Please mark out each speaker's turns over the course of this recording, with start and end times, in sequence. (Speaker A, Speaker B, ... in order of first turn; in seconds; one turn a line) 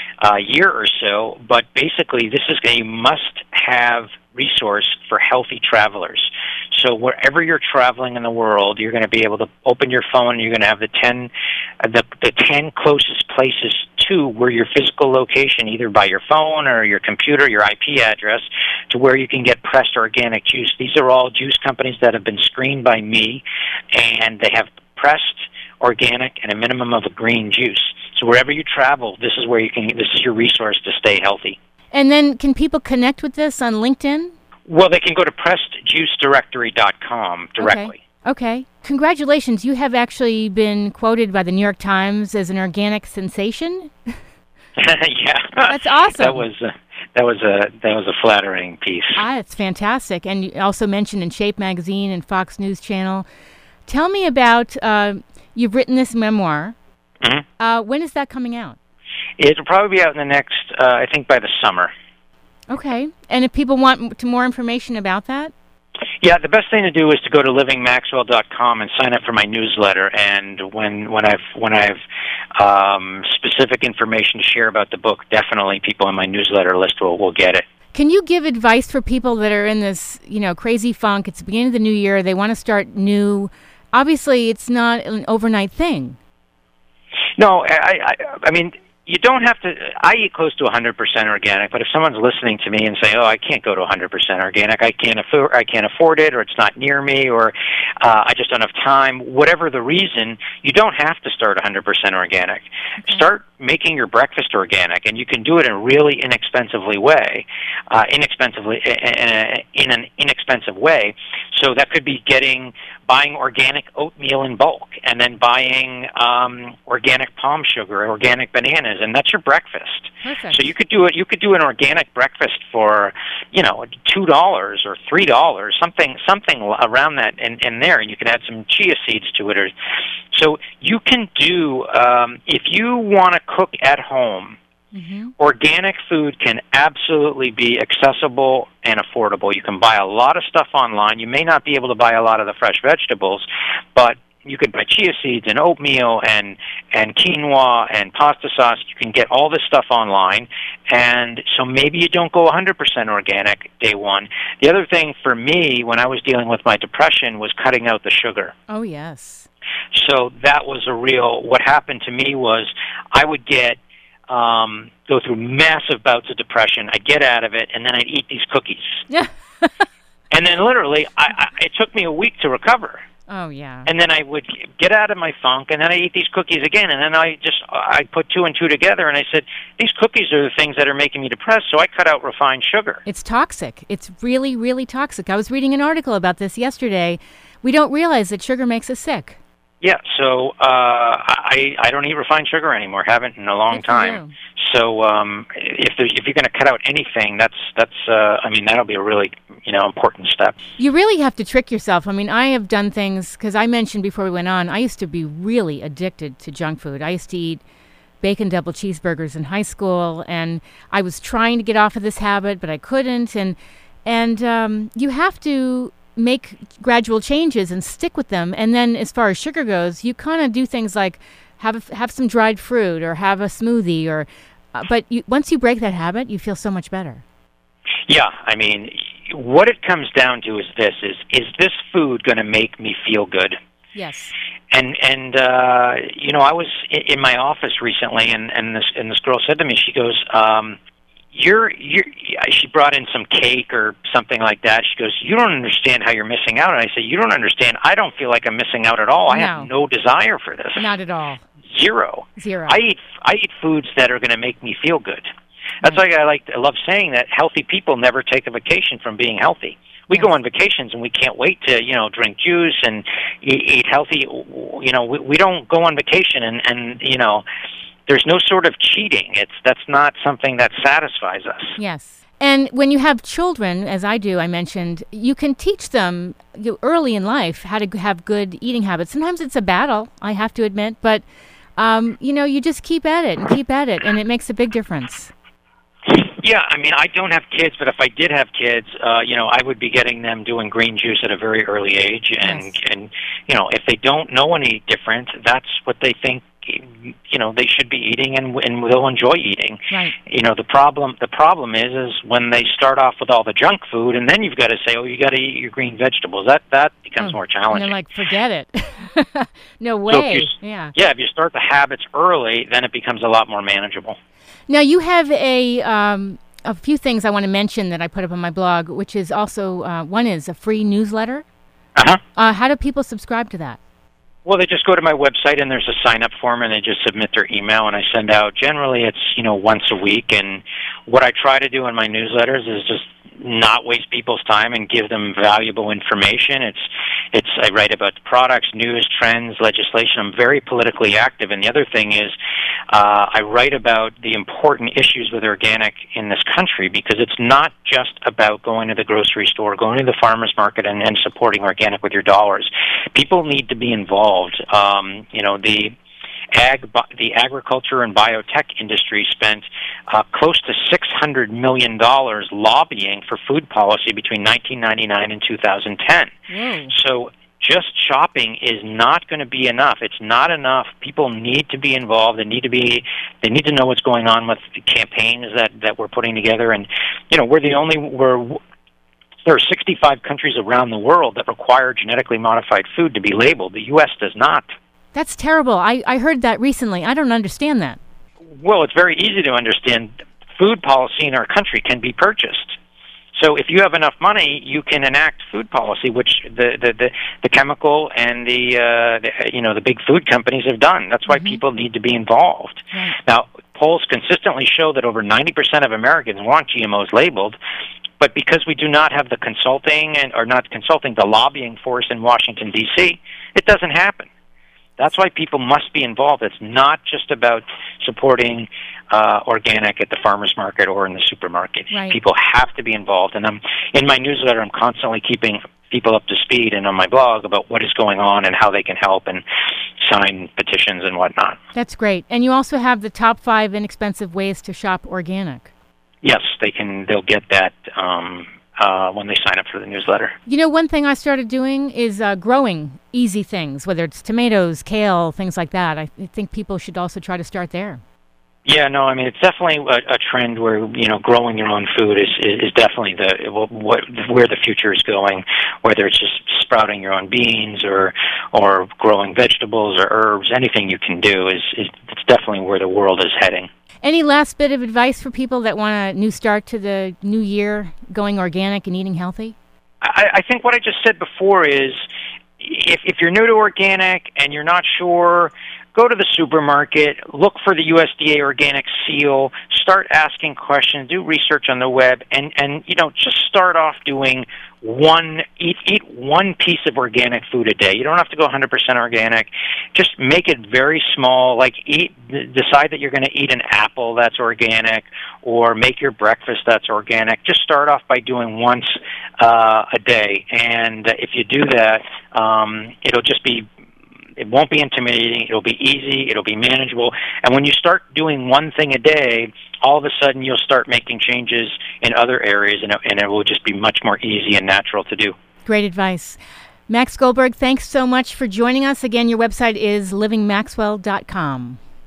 Speaker A: 0.2-31.6
Speaker B: 31.9-34.3
Speaker A: 34.7-38.0
Speaker B: 37.6-44.1
Speaker A: 44.8-49.2
Speaker B: 45.7-46.4
Speaker B: 49.1-53.2
Speaker B: 53.9-56.8
Speaker B: 57.6-58.8
Speaker A: 59.4-61.9
Speaker B: 62.7-65.5
Speaker A: 66.2-72.0
Speaker A: 72.5-77.6
Speaker B: 77.9-86.2
Speaker A: 87.4-129.7
Speaker B: 103.0-103.2
Speaker B: 120.2-120.6
Speaker A: 130.3-134.6
Speaker B: 134.9-135.3
Speaker A: 135.4-158.5
Speaker B: 158.7-159.5
Speaker A: 159.9-163.8
Speaker A: 164.3-169.0
Speaker B: 169.1-169.8
Speaker A: 170.3-173.0
Speaker B: 173.3-173.9
Speaker A: 173.8-183.0
Speaker B: 183.1-189.4
Speaker A: 189.8-200.6
Speaker B: 193.7-194.3
Speaker B: 200.8-207.6
Speaker B: 208.2-227.2
Speaker A: 228.1-233.6
Speaker B: 233.9-234.3
Speaker A: 234.7-240.8
Speaker A: 241.3-250.8
Speaker B: 249.3-249.7
Speaker B: 250.8-251.4
Speaker A: 251.6-255.3
Speaker B: 252.4-252.8
Speaker A: 255.8-267.4
Speaker A: 268.1-271.8
Speaker B: 271.8-281.2
Speaker B: 281.8-285.3
Speaker A: 286.1-307.9
Speaker B: 292.4-292.7
Speaker B: 307.2-310.9
Speaker A: 310.1-314.2
Speaker B: 314.7-321.4
Speaker B: 322.4-323.8
Speaker A: 324.4-342.3
Speaker A: 342.9-355.9
Speaker A: 356.5-366.3
Speaker B: 366.5-366.9
Speaker A: 366.9-378.6
Speaker A: 379.4-384.6
Speaker B: 385.1-388.0
Speaker A: 388.6-392.8
Speaker A: 393.3-407.6
Speaker B: 401.3-401.6
Speaker B: 402.9-403.2
Speaker A: 408.2-414.3
Speaker A: 415.0-429.4
Speaker B: 421.9-422.2
Speaker A: 430.0-431.6
Speaker B: 431.7-435.7
Speaker A: 436.2-440.3
Speaker B: 440.5-448.0
Speaker A: 448.6-463.7
Speaker B: 464.0-469.5
Speaker A: 470.0-472.0
Speaker A: 472.6-503.7
Speaker A: 504.4-515.3
Speaker B: 515.6-521.8